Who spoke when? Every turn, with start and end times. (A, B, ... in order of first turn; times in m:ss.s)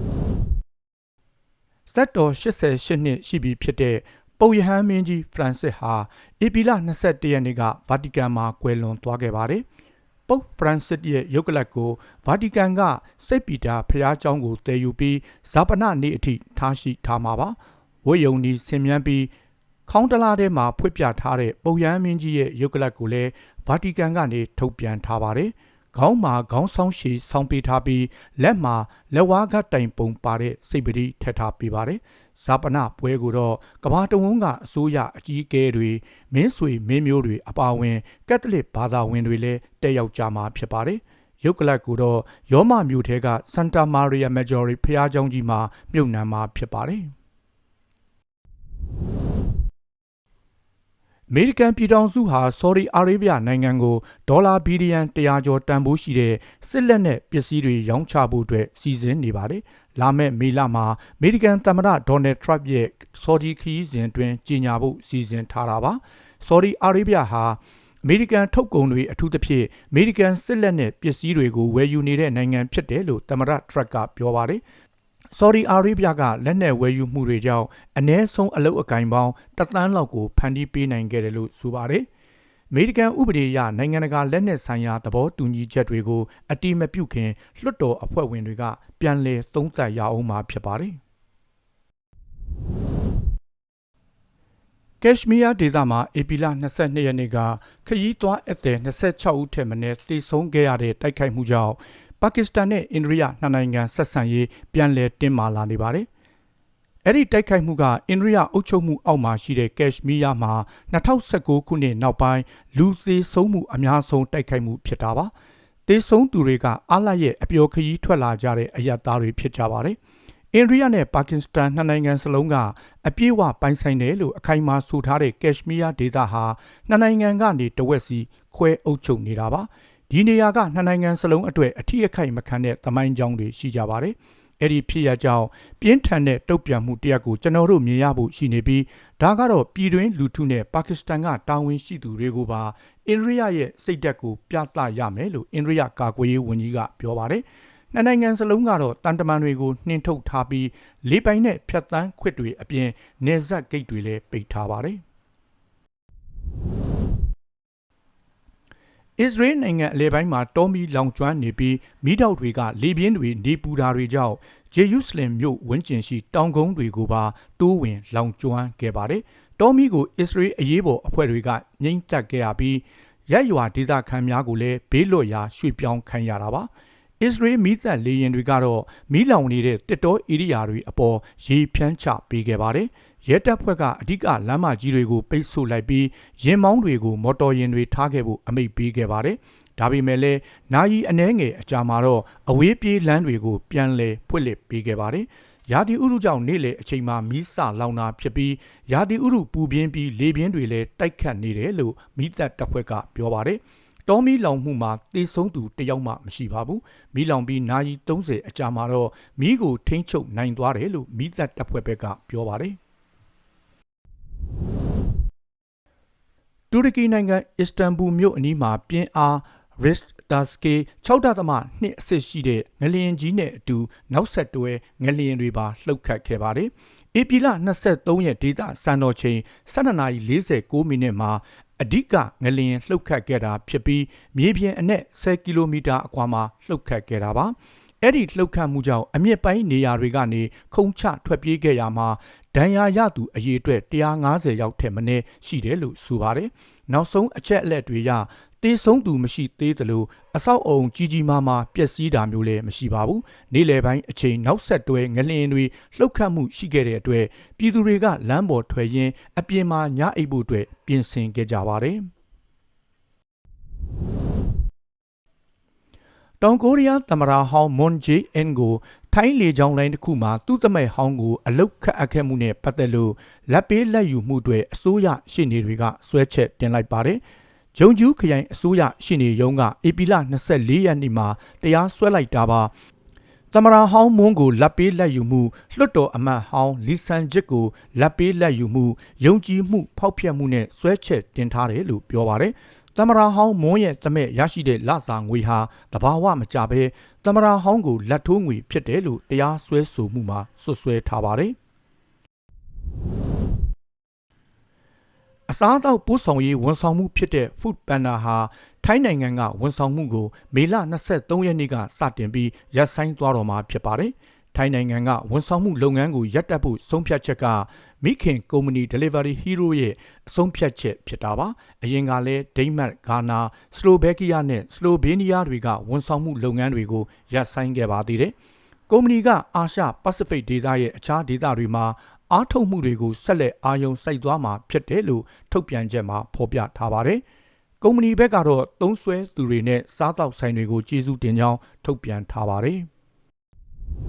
0:01.9-0:09.6 A
0:10.3-0:19.3 A
0:19.9-0:47.1 A
0:51.3-1:14.6 A
1:15.3-1:22.1 A
1:22.7-1:31.0 A
1:35.0-1:46.1 A
1:47.0-1:55.3 A
1:55.9-2:00.0 A
2:00.5-2:35.0 A
2:39.2-2:56.7 A
2:57.2-3:32.8 A
3:36.7-4:22.1 A
4:26.4-4:37.2 A
4:37.8-4:42.7 A
4:43.5-5:01.6 A
5:05.5-5:28.3 A
5:28.9-5:37.2 A
5:37.8-5:42.9 A